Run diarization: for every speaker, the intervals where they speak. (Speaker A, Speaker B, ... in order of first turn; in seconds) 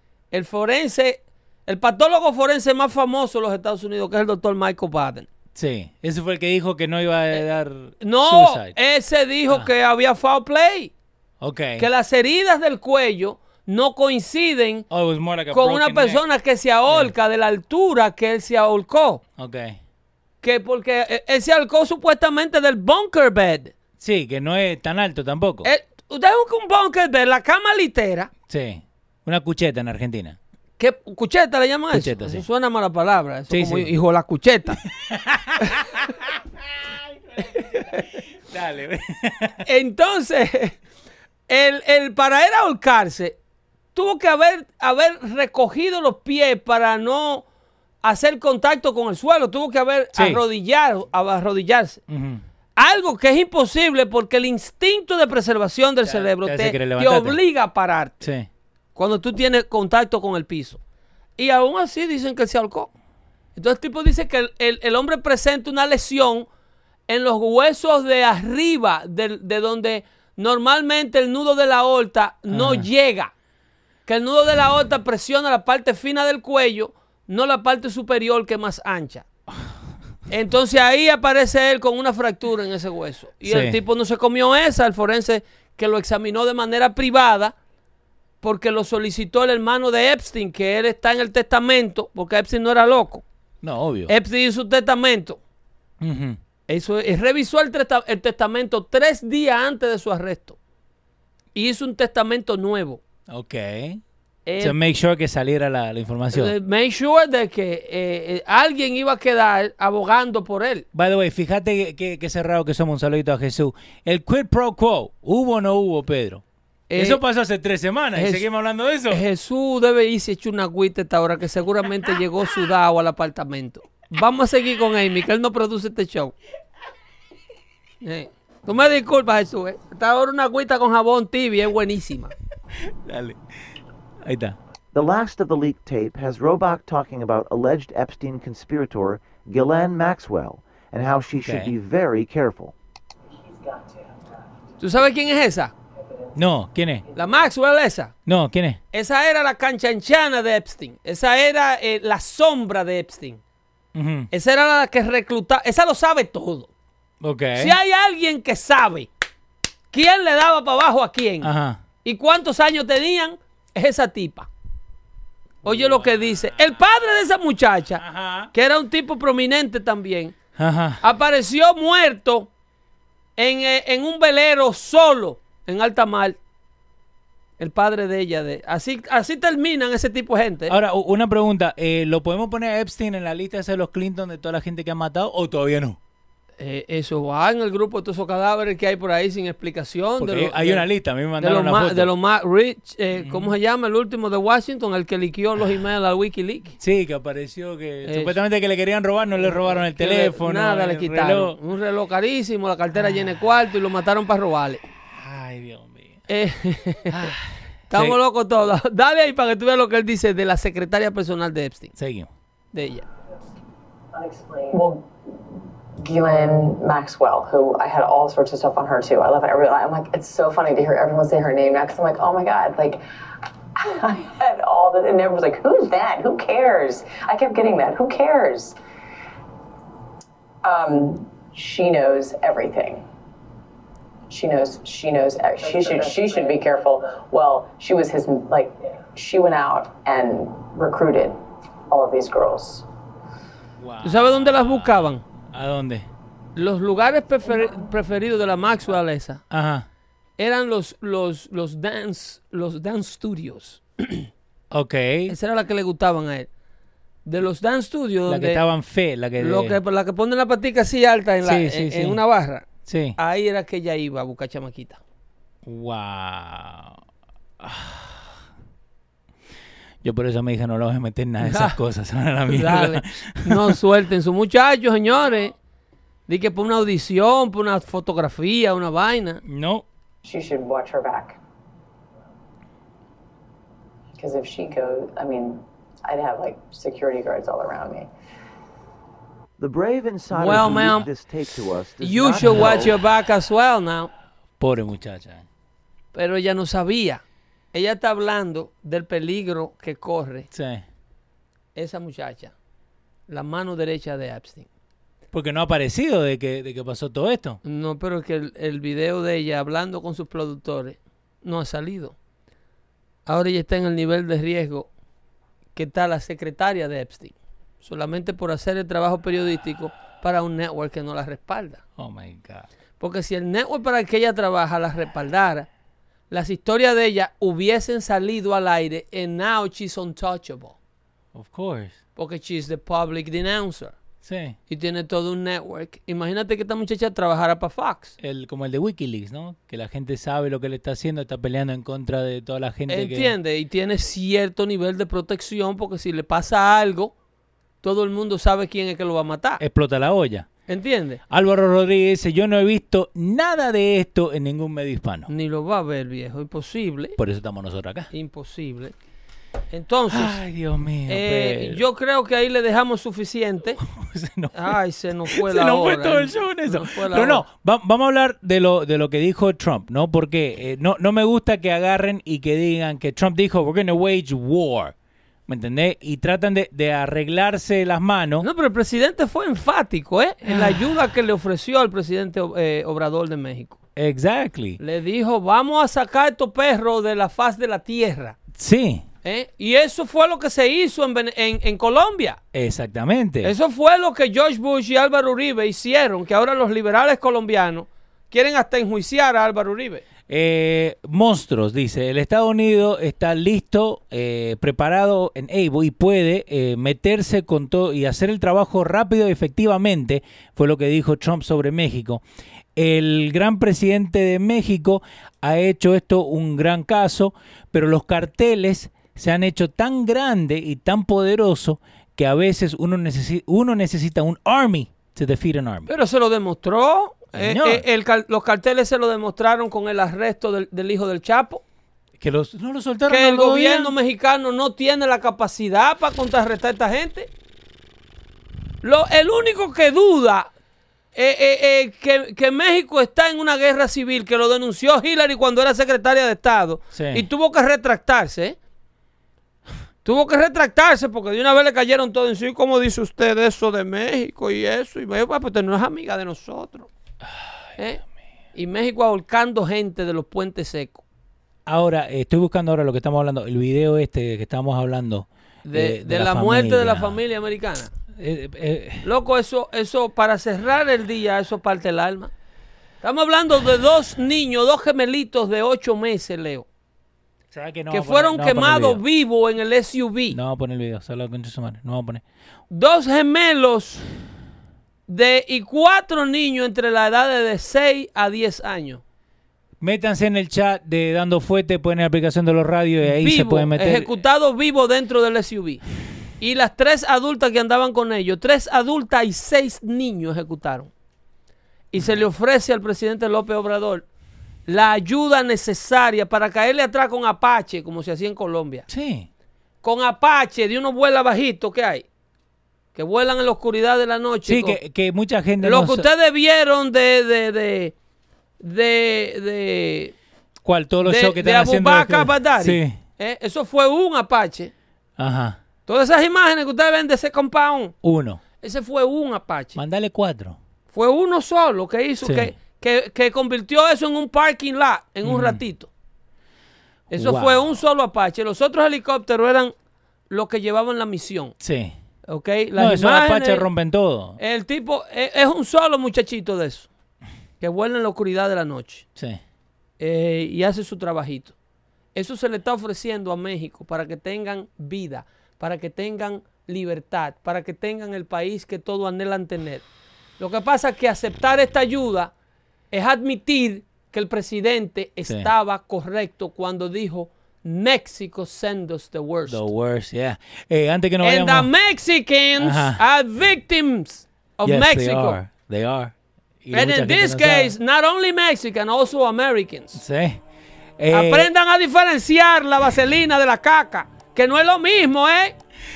Speaker A: 0.3-5.3, 8.0-10.9, 11.8-14.9, 15.5-19.2, 20.4-23.7, 25.6-28.3, 30.8-34.8, 37.6-38.0, 39.6-40.8, 41.5-43.4, 43.9-47.4, 48.0-52.0, 52.8-58.3, 59.0-60.8, 61.4-62.9, 63.5-66.5, 67.1-73.3, 74.1-79.2, 80.3-87.5, 88.4-93.2, 94.1-95.4, 96.7-100.6, 101.5-103.0, 104.5-104.8, 106.3-110.8, 116.9-117.2, 118.1-118.5, 119.1-126.3, 128.0-132.3, 144.8-145.7, 147.1-148.1, 148.9-153.4, 154.3-156.7, 157.6-159.1, 159.9-161.5, 162.0-164.5, 165.6-170.3, 171.0-172.5, 173.4-176.4, 177.6-180.8, 186.6-196.8, 198.1-198.3, 199.5-204.8, 206.3-207.3, 207.9-211.9, 212.7-213.0, 244.0-245.2, 246.6-249.4, 250.4-254.3, 255.3-256.5, 257.2-258.6, 259.4-262.6, 263.2-265.0, 271.4-271.8, 272.5-275.5, 276.3-279.4, 290.3-291.1, 292.0-294.1, 296.1-297.2, 297.7-300.5, 301.8-302.5, 303.3-304.7, 307.6-312.1, 313.2-314.9, 315.7-321.8, 323.0-325.7, 326.3-330.8, 332.1-333.9, 334.7-338.1, 342.9-347.1, 347.8-349.6, 350.7-351.2, 355.3-357.2, 358.1-358.9, 359.7-360.4, 361.1-363.8, 364.5-367.4, 378.4-383.8, 384.8-388.4, 389.2-392.4, 393.4-400.0, 425.9-431.6, 433.1-437.3, 438.8-440.5, 441.1-448.6, 450.0-456.9, 458.5-461.0, 465.6-467.9, 469.0-472.3, 473.0-476.6, 477.9-480.4, 482.7-484.0, 485.1-489.0, 493.1-495.8, 496.4-500.9, 501.9-504.0, 504.7-508.9, 509.8-512.0, 512.9-514.8, 515.6-517.9, 518.6-520.1, 521.0-524.7, 525.9-527.9, 528.6-529.8, 530.9-535.9, 537.1-539.7, 540.3-541.5, 542.3-543.7, 544.4-546.9, 547.6-549.0, 550.0-551.5, 552.1-559.8, 560.4-562.3, 562.9-569.7, 571.2-575.4, 576.7-580.0, 581.1-585.5
Speaker B: 5.5-8.8, 11.4-11.9, 14.9-16.2, 19.4-19.8, 24.0-25.7, 28.5-30.4, 31.9-32.4, 33.5-33.9, 34.9-39.6, 50.1-50.4, 52.1-52.4, 56.0-57.4, 58.2-58.5, 72.5-72.9, 83.4-83.8, 93.6-94.1, 96.0-96.4, 103.3-104.0, 104.6-106.5, 110.9-116.4, 116.9-119.2, 132.8-133.4, 134.2-134.6, 141.4-141.7, 146.3-147.0, 148.2-148.8, 153.9-154.3, 157.2-157.8, 161.4-161.8, 165.6-166.8, 168.0-168.5, 170.6-171.0, 180.7-186.0, 190.2-192.1, 193.1-193.5, 196.8-201.6, 205.1-206.2, 207.1-208.2, 211.9-212.3, 243.8-246.1, 249.5-249.8, 254.7-255.3, 258.3-259.8, 261.4-262.2, 262.8-263.2, 265.6-266.9, 267.6-268.3, 270.0-273.8, 279.4-279.8, 292.4-292.8, 294.6-295.4, 300.5-300.8, 305.3-307.6, 322.0-322.7, 331.3-332.0, 334.2-334.6, 338.2-343.3, 349.6-350.5, 351.3-355.3, 357.2-358.1, 360.1-361.8, 363.8-364.8, 365.3-374.9, 375.5-378.4, 380.4-380.9, 383.9-384.8, 388.5-389.0, 392.5-393.5, 400.3-412.2, 412.8-425.9, 427.3-427.8, 432.2-433.9, 446.9-447.3, 461.6-467.2, 468.1-469.1, 477.5-479.0, 480.3-482.2, 489.8-494.1, 508.9-509.3, 514.5-516.1, 520.6-523.0, 525.2-525.6, 528.0-528.4, 529.7-530.6, 532.2-532.5, 535.2-535.6, 537.1-537.8, 541.6-542.0, 542.8-544.4, 565.3-565.5, 569.5-571.7, 572.6-573.0, 574.6-577.8, 580.0-580.4, 581.0-581.5
Speaker C: 134.9-142.7, 289.6-293.0
Speaker D: 143.5-144.1, 214.1-214.8, 235.6-236.6
Speaker E: 214.7-215.1, 216.0-223.0, 223.8-228.8, 230.6-233.0, 234.3-241.4, 241.9-242.8, 280.2-281.4, 284.1-288.1